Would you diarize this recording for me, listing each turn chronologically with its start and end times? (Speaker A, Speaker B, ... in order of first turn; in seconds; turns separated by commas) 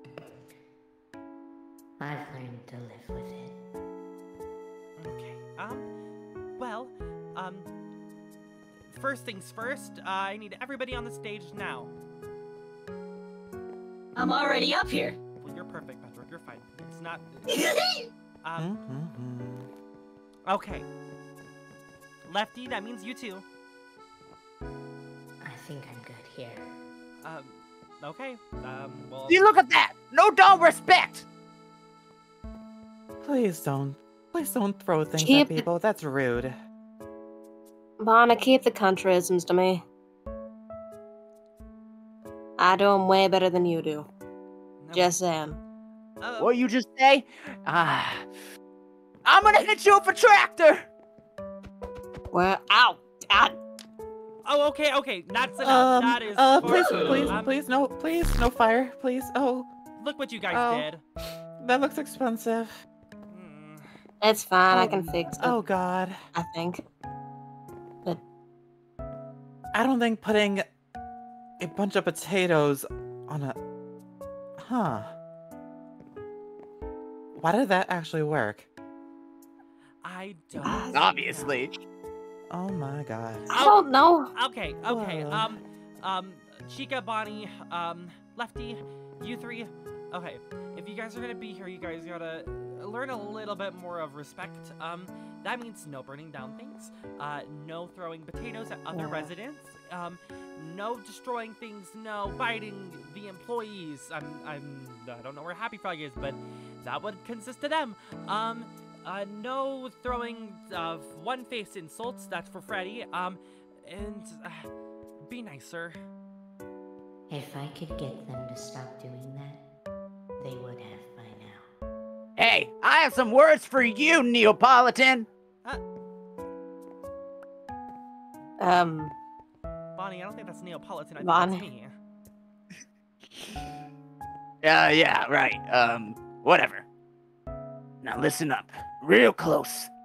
Speaker A: 2.0-3.6, Speaker B: 5.0-5.9, Speaker B: 6.6-7.7, Speaker B: 8.9-11.9, Speaker C: 14.2-15.2, Speaker B: 15.4-17.5, Speaker C: 17.5-18.1, Speaker B: 18.4-18.7, Speaker D: 18.6-19.7, Speaker B: 20.4-20.9, Speaker B: 22.2-23.4, Speaker A: 25.4-26.8, Speaker B: 27.2-29.6, Speaker E: 29.3-31.2, Speaker D: 33.2-36.5, Speaker F: 35.2-35.6, Speaker F: 38.0-39.8, Speaker F: 42.6-44.1, Speaker B: 44.8-45.2, Speaker F: 44.9-45.6, Speaker B: 46.2-46.6, Speaker E: 46.4-48.3, Speaker E: 49.2-50.9, Speaker F: 52.3-53.6, Speaker B: 54.4-57.5, Speaker D: 55.6-59.7, Speaker C: 56.6-57.4, Speaker B: 60.0-61.0, Speaker D: 60.5-60.9, Speaker D: 61.6-62.7, Speaker B: 63.3-63.9, Speaker F: 64.2-65.6, Speaker D: 64.7-66.2, Speaker F: 66.3-66.8, Speaker D: 69.7-70.7, Speaker D: 71.6-73.6, Speaker D: 74.6-75.1, Speaker D: 77.3-78.7, Speaker B: 80.0-81.7, Speaker F: 80.6-81.0, Speaker E: 80.9-81.7, Speaker D: 82.5-83.5, Speaker B: 83.5-83.8, Speaker F: 83.5-84.3, Speaker B: 84.3-114.7, Speaker D: 84.8-85.5, Speaker F: 98.9-99.3, Speaker B: 115.2-116.0, Speaker A: 117.3-119.6, Speaker A: 120.4-121.7, Speaker E: 122.4-125.3, Speaker F: 128.6-129.1, Speaker B: 129.9-131.9, Speaker F: 131.2-131.7, Speaker E: 134.6-136.8, Speaker E: 138.0-139.9